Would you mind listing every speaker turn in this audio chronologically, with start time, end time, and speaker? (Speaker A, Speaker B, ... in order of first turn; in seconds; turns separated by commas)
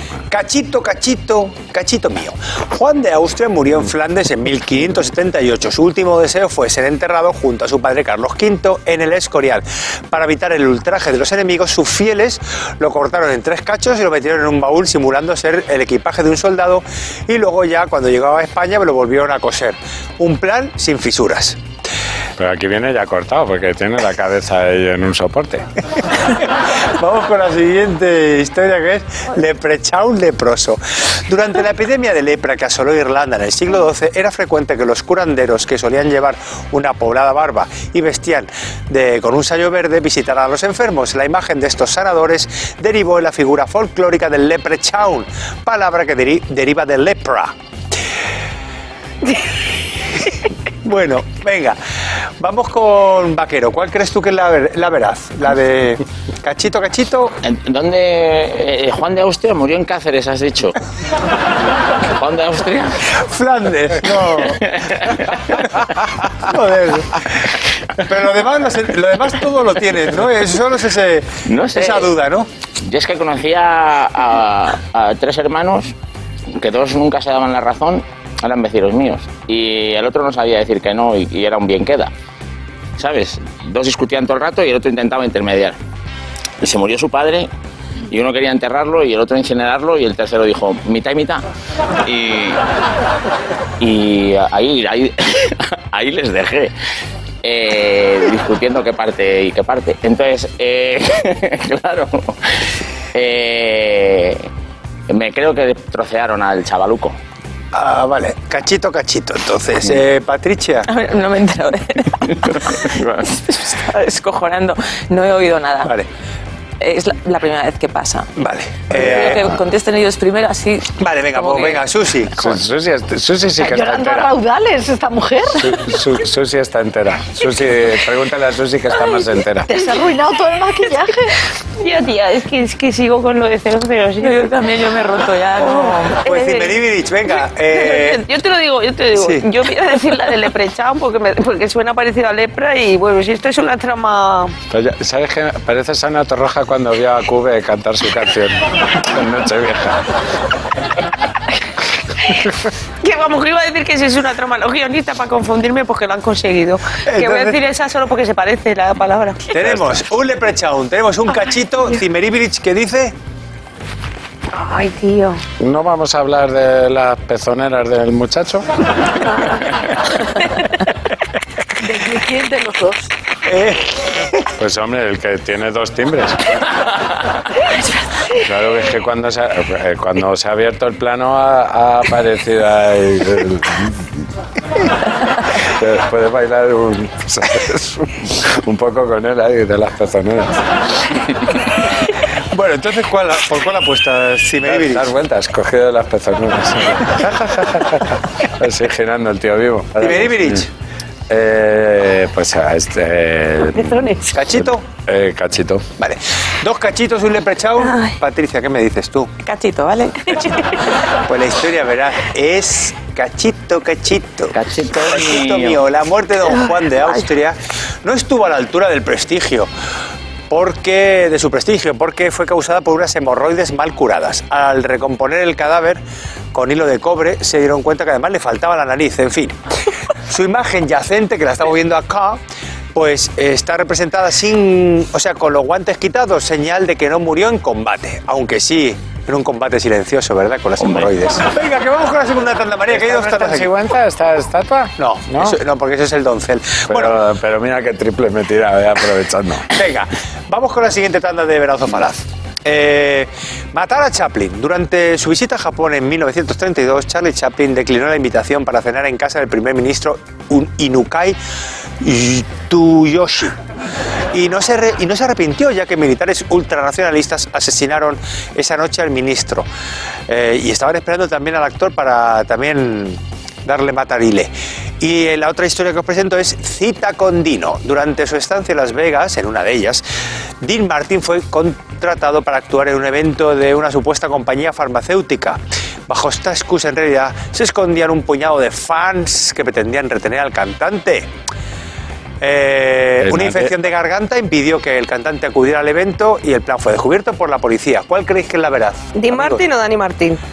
Speaker A: 0.3-21.6, Speaker B: 22.4-25.6, Speaker A: 26.3-47.5, Speaker A: 50.8-51.8, Speaker A: 52.4-57.3, Speaker C: 57.4-60.8, Speaker C: 62.1-63.0, Speaker A: 63.1-64.8, Speaker C: 64.5-65.6, Speaker A: 65.6-72.5, Speaker C: 71.5-72.1, Speaker C: 72.8-75.9, Speaker C: 76.5-82.1, Speaker C: 83.0-85.8, Speaker C: 86.6-87.5, Speaker C: 88.1-91.4, Speaker C: 92.0-92.6, Speaker C: 93.8-96.7, Speaker C: 97.4-102.5, Speaker C: 103.1-104.5, Speaker C: 105.1-107.2, Speaker A: 107.7-110.9, Speaker D: 110.8-115.9, Speaker C: 112.4-113.4, Speaker D: 116.8-118.3, Speaker A: 118.4-119.4, Speaker D: 118.9-121.8, Speaker B: 118.9-119.5, Speaker A: 121.0-122.5, Speaker B: 122.3-124.3, Speaker E: 123.6-125.8, Speaker B: 125.5-129.7, Speaker E: 129.7-131.4, Speaker F: 131.8-134.5, Speaker D: 134.2-136.2, Speaker F: 135.6-144.5, Speaker A: 136.2-138.2, Speaker A: 139.1-139.4, Speaker B: 144.7-150.0, Speaker F: 152.3-159.7, Speaker A: 157.1-157.6, Speaker A: 159.5-163.1, Speaker B: 159.7-160.0, Speaker F: 164.5-165.4, Speaker B: 165.6-168.7, Speaker E: 171.8-173.1, Speaker A: 173.4-174.5, Speaker B: 174.6-176.5, Speaker B: 178.4-184.2, Speaker B: 185.6-191.2, Speaker A: 192.5-195.1, Speaker B: 194.6-200.6, Speaker A: 200.0-200.7, Speaker B: 201.3-205.8, Speaker F: 203.8-204.3, Speaker A: 204.3-204.8, Speaker A: 206.0-209.3, Speaker F: 207.8-208.2, Speaker F: 209.4-210.9, Speaker A: 211.1-219.7, Speaker C: 214.5-215.8, Speaker A: 220.5-226.0, Speaker A: 226.5-229.6, Speaker A: 230.3-232.4, Speaker A: 232.9-243.7, Speaker C: 240.8-241.1, Speaker B: 242.9-245.6, Speaker A: 245.0-247.2, Speaker B: 246.9-249.7, Speaker A: 249.7-261.4, Speaker A: 262.0-263.6, Speaker A: 264.3-269.7, Speaker A: 270.3-280.0, Speaker A: 280.6-291.3, Speaker A: 292.4-299.6, Speaker B: 293.2-293.7, Speaker F: 299.1-300.4